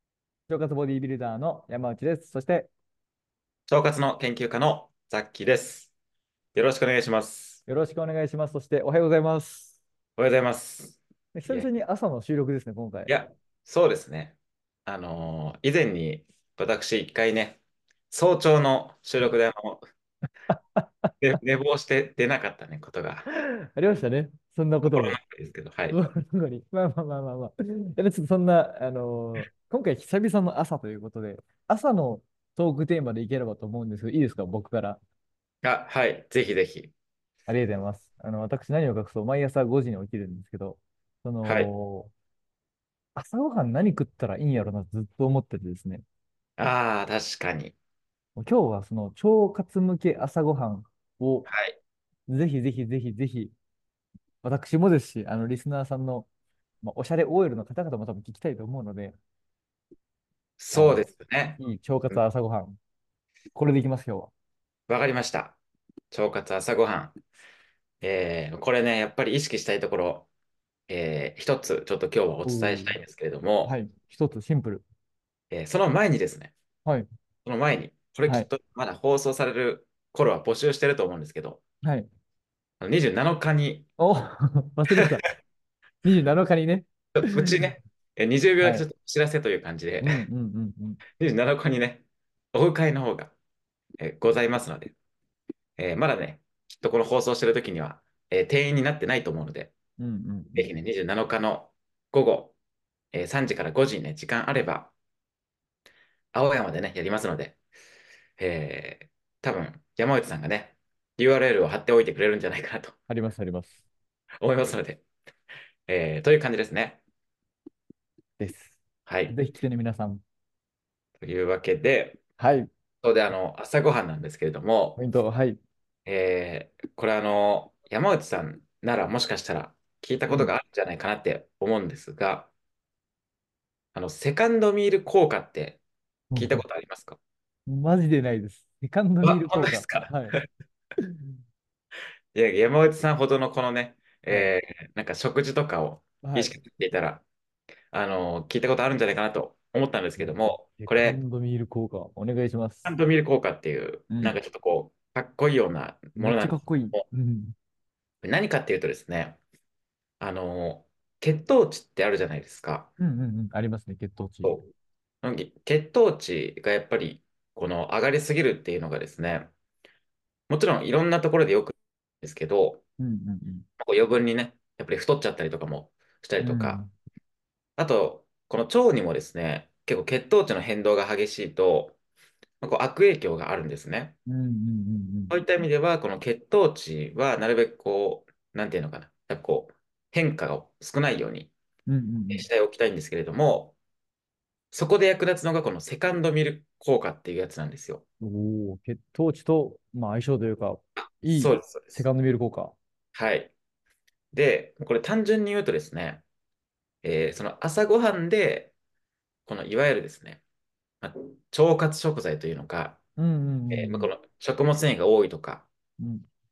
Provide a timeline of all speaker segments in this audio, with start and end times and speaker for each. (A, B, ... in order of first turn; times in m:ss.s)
0:00.5-0:02.7 A
0:03.7-0:05.9 B
0:06.5-0:07.6 B
0:07.6-0:09.8 A
0:10.2-0:11.7 B
0:11.3-0:13.2 A
0:13.1-0:17.6 B
0:18.1-0:19.8 B
0:20.5-0:21.1 A
0:21.2-0:23.3 B
0:23.3-0:25.2 A
0:24.9-0:26.0 B
0:25.9-0:35.0 A
0:35.6-0:36.9 B
0:37.5-0:42.1 A
0:41.4-0:41.7 B
0:43.2-0:46.0 A
0:46.6-0:47.7 B
0:48.4-0:51.5 A
0:51.4-0:51.8 B
0:52.3-0:53.5 A
0:54.4-0:56.3 A
0:56.8-0:59.1 A
1:00.6-1:01.6 B
1:00.7-1:01.1 A
1:01.6-1:02.8 A
1:03.5-1:04.3 A
1:04.9-1:05.6 B
1:06.1-1:07.1 B
1:08.0-1:10.3 B
1:10.9-1:13.7 B
1:12.4-1:13.0 A
1:13.6-1:14.8 A
1:15.5-1:16.5 B
1:17.4-1:21.6 B
1:21.8-1:22.1 A
1:22.8-1:23.9 B
1:24.0-1:25.2 A
1:26.0-1:27.7 A
1:27.1-1:30.2 B
1:28.6-1:28.8 A
1:30.0-1:31.0 A
1:31.2-1:33.3 B
1:34.0-1:34.9 B
1:35.8-1:39.7 B
1:40.0-1:40.7 A
1:40.5-1:42.5 B
1:43.1-1:44.9 B
1:46.3-1:47.6 B
1:48.4-1:53.0 B
1:53.1-1:53.8 A
1:54.4-1:55.0 B
1:55.9-1:57.0 B
1:58.4-2:00.2 A
1:59.1-1:59.3 B
2:01.2-2:02.2 B
2:02.4-2:02.7 A
2:03.0-2:05.0 B
2:05.0-2:05.6 A
2:06.0-2:12.5 B
2:10.3-2:10.5 A
2:13.9-2:15.8 B
2:16.3-2:16.6 A
2:16.3-2:17.2 B
2:17.7-2:20.4 A
2:19.2-2:20.4 B
2:22.3-2:27.2 B
2:26.2-2:26.5 A
2:27.9-2:31.2 B
2:30.2-2:32.9 A
2:32.8-2:37.0 B
2:34.1-2:34.4 A
2:36.2-2:37.5 A
2:38.2-2:39.4 B
2:40.2-2:42.9 B
2:43.0-2:44.7 A
2:45.2-2:49.5 B
2:50.5-2:52.8 B
2:53.0-2:53.7 A
2:53.8-2:56.8 B
2:56.4-2:56.9 A
2:57.8-3:02.0 B
3:02.6-3:04.1 B
3:04.2-3:05.4 A
3:05.3-3:11.5 B
3:11.9-3:12.4 A
3:12.3-3:13.8 B
3:14.7-3:18.0 B
3:18.2-3:22.7 A
3:21.0-3:22.0 B
3:23.1-3:23.5 B
3:24.3-3:26.2 B
3:27.0-3:28.7 B
3:29.4-3:30.4 B
3:31.0-3:33.0 B
3:33.2-3:34.1 A
3:33.7-3:35.7 B
3:36.0-3:36.2 A